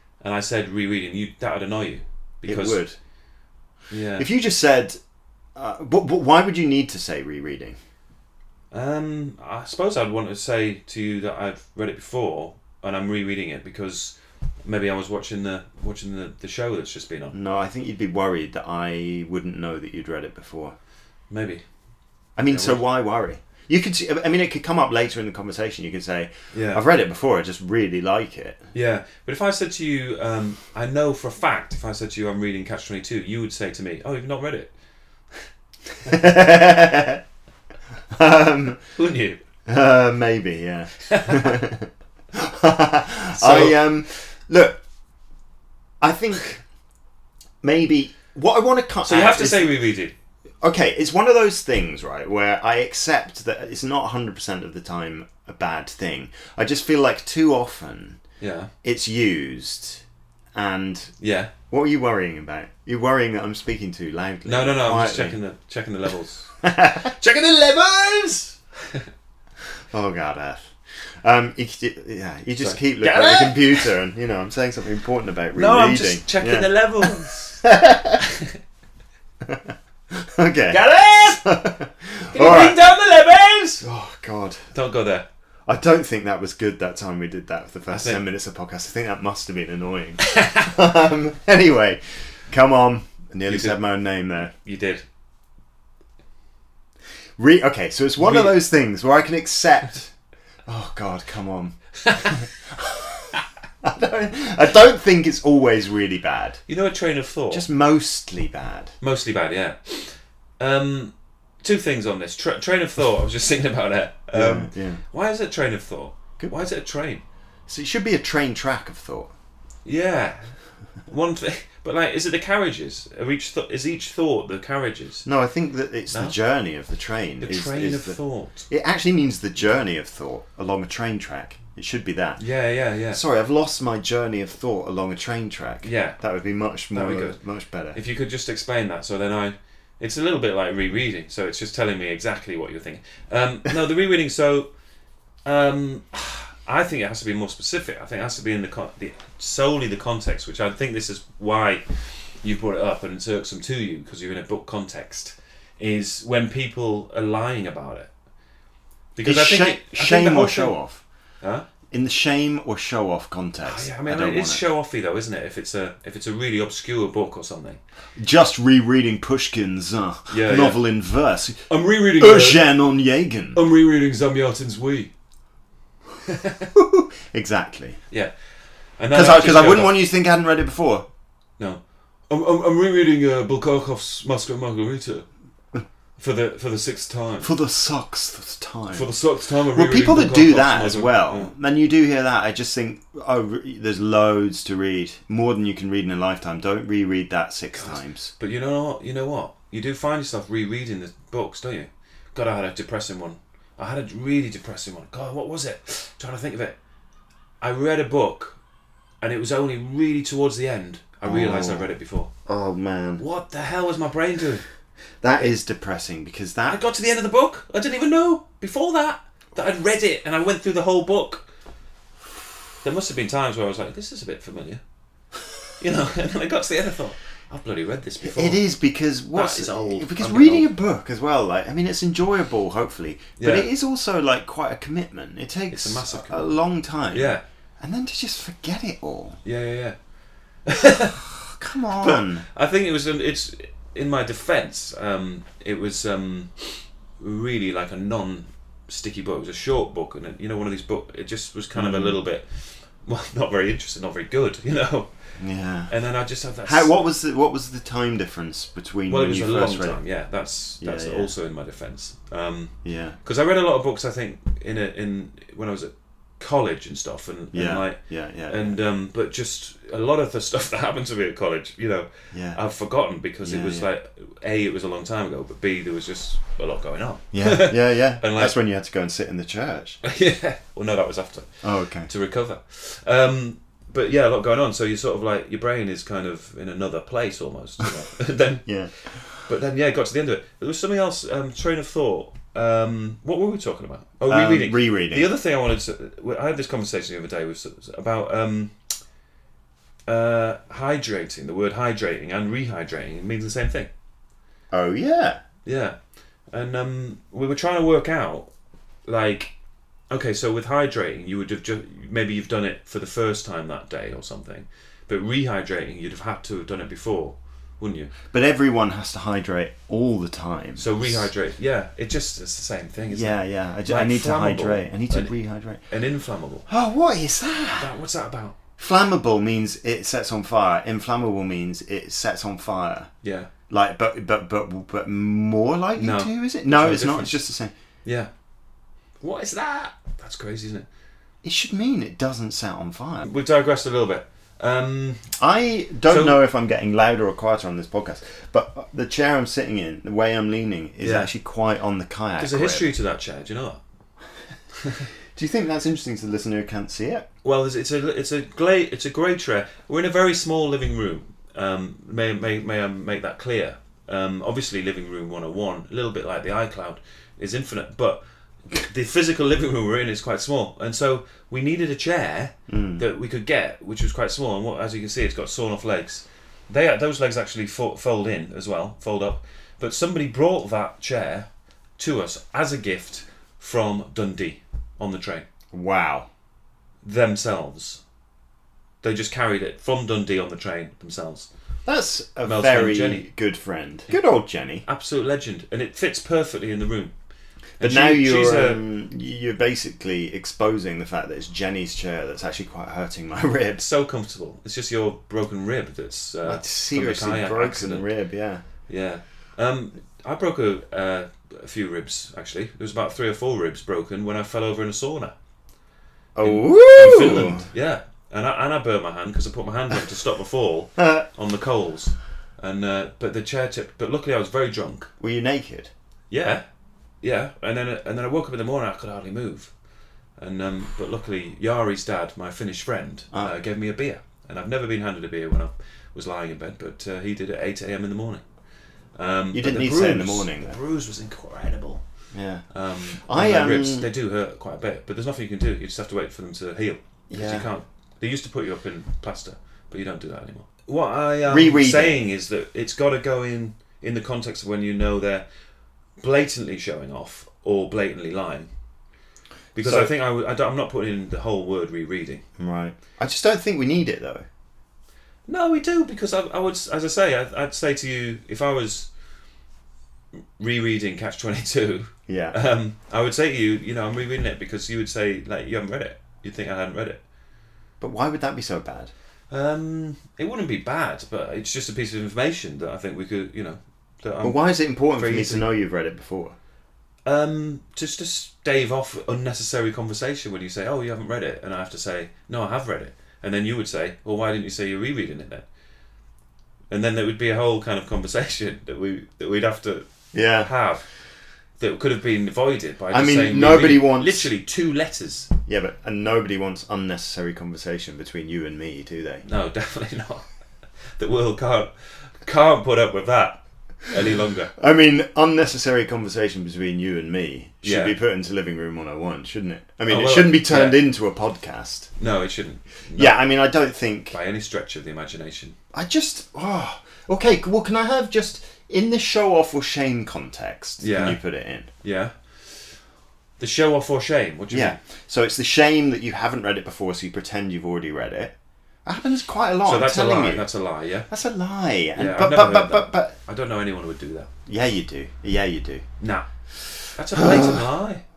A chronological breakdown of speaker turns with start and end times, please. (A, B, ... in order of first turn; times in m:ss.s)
0:00.2-0:02.8 A
0:02.4-0:03.0 B
0:03.9-0:04.3 A
0:04.2-0:05.0 B
0:05.6-0:07.8 B
0:08.7-0:17.4 A
0:17.3-0:20.8 B
0:21.3-0:21.6 A
0:22.4-0:28.6 B
0:22.5-0:22.8 A
0:26.5-0:26.8 A
0:28.7-0:34.7 A
0:36.1-0:37.2 B
0:38.1-0:38.8 B
0:39.0-0:39.4 A
0:39.7-0:44.8 B
0:41.1-0:41.6 A
0:43.4-0:43.9 A
0:46.0-0:46.6 B
0:47.6-0:49.7 B
0:49.0-0:50.2 A
0:50.6-0:58.2 B
0:58.4-0:58.7 A
0:58.8-1:00.0 B
1:00.5-1:01.1 B
1:01.2-1:01.5 A
1:01.7-1:05.4 B
1:04.5-1:06.5 A
1:06.6-1:08.0 B
1:07.2-1:09.1 A
1:09.9-1:17.1 B
1:12.6-1:13.9 A
1:15.6-1:17.6 A
1:17.6-1:18.2 B
1:18.2-1:18.6 A
1:19.4-1:22.8 B
1:20.7-1:21.5 A
1:22.3-1:23.9 A
1:23.8-1:24.6 B
1:24.7-1:25.3 A
1:25.7-1:34.5 B
1:27.9-1:28.2 A
1:30.2-1:30.7 A
1:33.5-1:33.8 A
1:34.5-1:35.0 A
1:37.4-1:40.1 B
1:38.2-1:38.6 A
1:40.7-1:46.6 B
1:42.0-1:42.4 A
1:46.7-1:47.6 A
1:47.5-1:48.9 B
1:49.0-1:57.2 A
1:54.3-1:55.0 B
1:57.7-1:59.3 B
1:59.8-2:00.5 A
2:01.1-2:05.3 A
2:05.2-2:08.2 B
2:07.4-2:08.7 A
2:08.7-2:12.4 B
2:12.4-2:13.2 A
2:13.1-2:18.0 B
2:15.8-2:16.2 A
2:16.9-2:17.4 A
2:17.9-2:24.7 A
2:25.4-2:38.1 A
2:39.2-2:40.8 A
2:39.2-2:41.0 B
2:41.4-2:41.7 A
2:41.9-2:44.6 B
2:43.6-2:47.8 A
2:48.2-2:53.6 B
2:50.3-2:50.8 A
2:51.7-2:52.7 A
2:53.6-2:55.1 A
2:56.3-2:56.7 A
2:56.7-2:58.0 B
2:59.0-3:00.0 A
2:59.1-3:01.0 B
3:01.6-3:05.3 A
3:06.2-3:07.5 A
3:07.4-3:09.1 B
3:08.9-3:11.5 A
3:09.7-3:18.3 B
3:17.7-3:26.8 A
3:27.6-3:28.6 A
3:29.2-3:32.3 A
3:31.2-3:31.9 B
3:32.5-3:33.2 B
3:33.2-3:34.6 A
3:35.2-3:36.8 B
3:36.6-3:41.5 A
3:42.8-3:44.8 A
3:45.8-3:48.6 A
3:48.2-3:59.4 B
3:49.3-3:50.7 A
3:53.4-3:53.7 A
3:55.7-3:56.6 A
3:57.1-3:57.4 A
3:59.4-4:00.0 A
4:00.7-4:01.2 A
4:01.2-4:02.4 B
4:02.0-4:15.3 A
4:11.8-4:12.2 B
4:15.4-4:15.9 B
4:15.9-4:17.0 A
4:16.6-4:20.0 B
4:19.1-4:38.5 A
4:20.8-4:21.3 B
4:22.8-4:23.2 B
4:27.5-4:28.8 B
4:32.3-4:32.6 B
4:33.4-4:33.9 B
4:37.3-4:40.0 B
4:40.0-4:48.7 A
4:41.6-4:42.1 B
4:48.6-4:49.3 B
4:49.4-4:58.7 A
4:54.3-4:55.3 B
5:00.1-5:03.9 A
5:04.7-5:05.4 B
5:05.6-5:06.0 A
5:06.5-5:08.5 A
5:09.1-5:09.5 A
5:10.1-5:18.1 A
5:18.3-5:21.2 B
5:20.8-5:25.4 A
5:23.1-5:25.8 B
5:25.9-5:26.7 A
5:26.7-5:27.9 B
5:27.8-5:28.6 A
5:28.8-5:33.1 B
5:33.2-5:33.5 A
5:33.7-5:37.7 B
5:36.0-5:37.4 A
5:38.0-5:38.3 A
5:39.2-5:40.9 A
5:41.4-5:43.3 B
5:43.2-5:45.3 A
5:45.4-5:52.9 B
5:46.1-5:46.4 A
5:51.0-5:51.3 A
5:52.4-5:53.8 A
5:54.8-5:55.1 A
5:55.3-5:57.3 B
5:57.4-6:21.5 A
6:12.7-6:13.0 B
6:22.0-6:25.5 A
6:25.7-6:26.3 B
6:27.0-6:28.0 A
6:29.0-6:31.5 A
6:31.9-6:34.8 B
6:32.4-6:33.3 A
6:34.9-6:37.1 A
6:37.8-6:38.8 A
6:37.8-6:43.8 B
6:43.8-6:48.1 A
6:46.5-6:48.6 B
6:48.9-6:55.3 A
6:56.4-6:57.7 B
6:56.4-7:05.1 A
7:01.0-7:01.2 B
7:05.2-7:05.9 B
7:06.3-7:06.6 A
7:07.2-7:09.7 A
7:10.4-7:18.4 A
7:19.2-7:22.0 A
7:19.5-7:20.8 B
7:22.3-7:24.1 B
7:22.7-7:35.4 A
7:27.3-7:27.7 B
7:31.5-7:32.2 B
7:36.2-7:38.7 A
7:39.8-7:42.4 A
7:39.8-7:40.1 B
7:42.6-7:44.5 B
7:45.5-7:49.1 A
7:50.6-7:57.2 A
7:52.3-7:52.6 B
7:58.0-7:59.1 B
7:59.5-8:04.6 A
8:04.4-8:06.6 B
8:05.1-8:05.7 A
8:07.2-8:15.6 A
8:16.9-8:20.1 A
8:20.3-8:20.7 B
8:20.6-8:21.0 A
8:21.8-8:25.5 A
8:23.1-8:24.5 B
8:25.7-8:29.4 B
8:29.4-8:30.5 A
8:31.2-8:34.7 A
8:34.8-8:42.1 B
8:37.8-8:38.2 A
8:40.1-8:41.0 A
8:42.2-8:43.4 A
8:43.2-8:44.4 B
8:44.3-8:45.8 A
8:45.9-8:51.9 B
8:51.0-8:51.4 A
8:52.0-8:52.4 A
8:53.6-8:55.0 A
8:54.7-8:58.5 B
8:59.0-9:00.7 B
8:59.8-9:01.3 A
9:01.3-9:03.4 B
9:02.2-9:04.5 A
9:04.7-9:06.0 B
9:06.2-9:06.5 A
9:07.1-9:08.2 A
9:07.4-9:07.8 B